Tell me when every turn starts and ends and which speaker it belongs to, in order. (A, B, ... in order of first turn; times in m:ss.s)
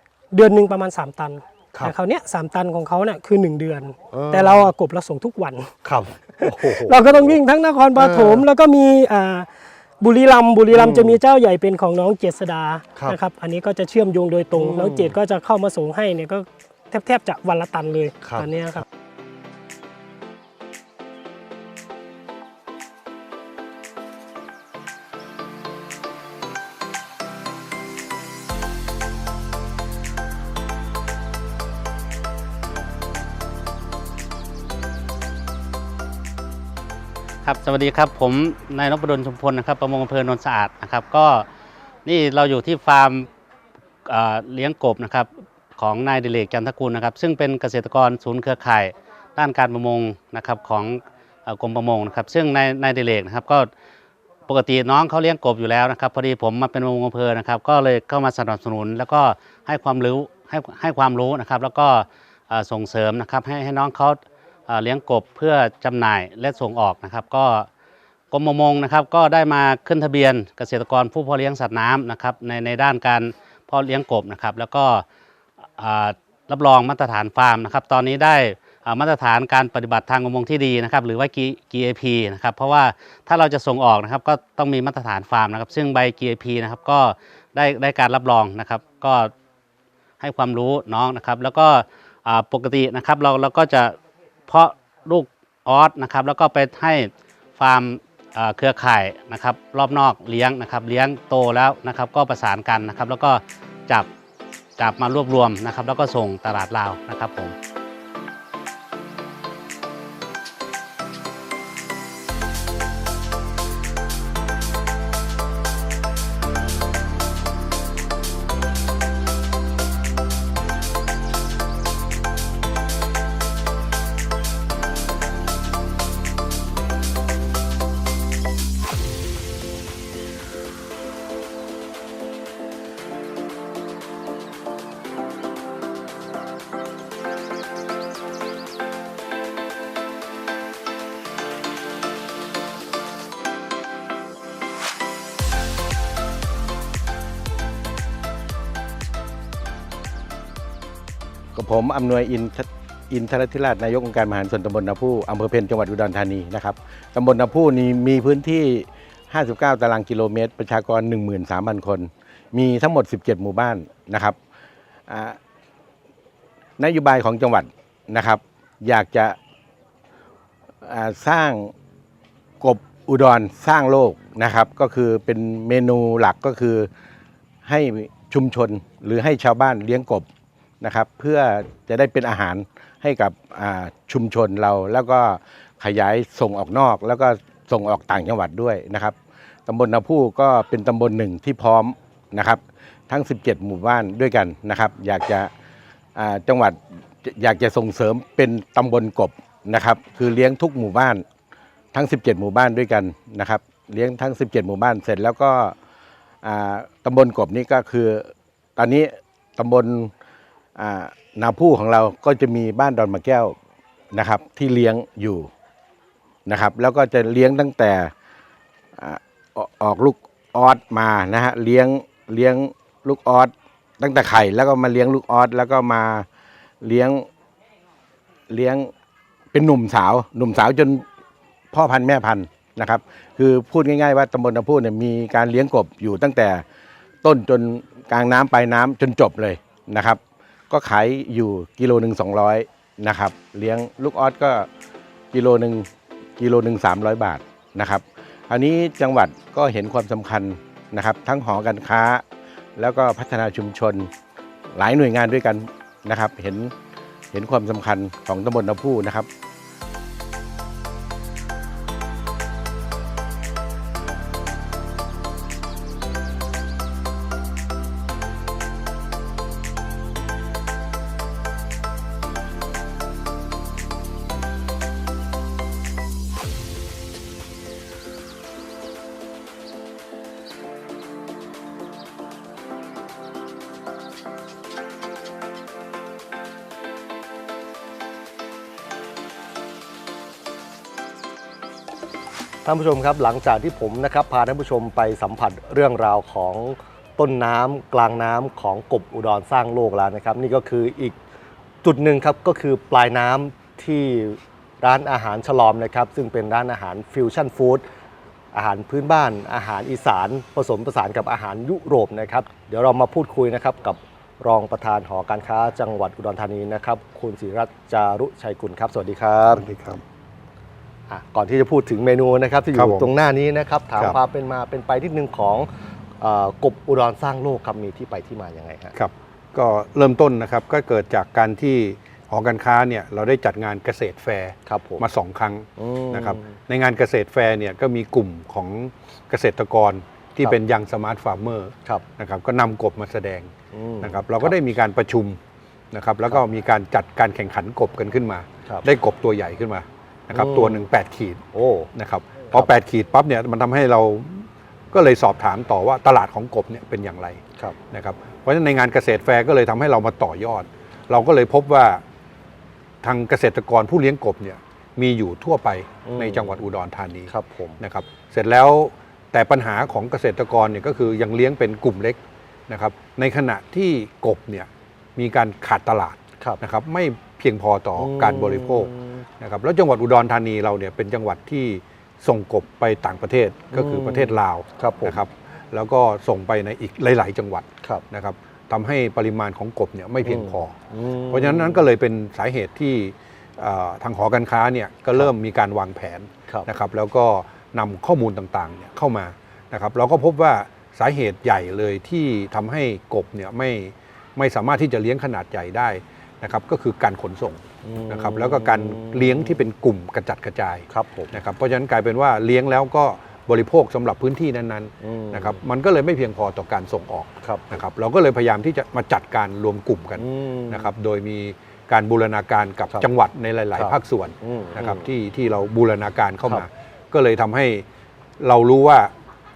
0:00.3-0:05.7 A
0:04.1-0:04.7 B
0:05.8-0:07.4 B
0:06.4-0:18.8 A
0:08.0-0:08.4 B
0:10.7-0:11.2 B
0:14.5-0:15.2 B
0:18.2-0:18.5 B
0:37.4-0:41.5 C
0:42.0-0:43.3 C
0:44.0-0:53.7 C
0:54.5-1:07.7 C
1:08.3-1:15.0 C
1:15.8-1:29.3 C
1:30.2-1:44.1 C
1:44.8-1:47.6 C
2:31.6-2:44.4 D
2:45.1-2:45.4 D
2:46.8-2:49.4 D
2:50.8-2:51.7 D
2:52.6-2:56.9 D
2:57.6-3:00.3 D
3:00.8-3:15.5 D
3:16.2-3:21.2 D
3:21.9-3:25.8 D
3:26.4-3:30.1 D
3:30.8-3:33.6 D
3:34.1-3:35.5 D
3:36.5-3:38.1 D
3:39.0-3:46.3 D
3:46.8-3:47.3 D
3:48.5-3:48.9 D
3:49.5-3:51.0 D
3:51.7-3:56.6 D
3:57.2-4:04.7 D
4:05.3-4:12.2 D
4:12.8-4:14.1 D
4:14.8-4:16.7 D
4:17.3-4:19.3 D
4:52.6-5:01.2 B
5:01.8-5:07.9 B
5:08.5-5:19.7 B
5:19.5-5:20.0 E
5:21.1-5:29.0 B
5:22.7-5:23.1 E
5:29.0-5:45.4 E
5:34.7-5:35.1 B
5:35.8-5:36.6 B
5:43.7-5:44.6 B
5:45.9-5:51.4 E
5:50.3-5:50.9 B
5:51.5-5:51.9 B
5:52.0-6:02.0 E
6:03.0-6:30.8 E
6:06.1-6:06.6 B
6:07.3-6:07.8 B
6:18.0-6:19.2 B
6:23.7-6:25.2 B
6:30.2-6:31.9 B
6:31.3-7:07.8 E
6:47.8-6:49.7 B
6:50.9-6:51.4 B
6:55.0-6:55.6 B
6:57.4-6:57.8 B
7:00.2-7:00.9 B
7:03.7-7:05.1 B
7:08.4-7:09.1 E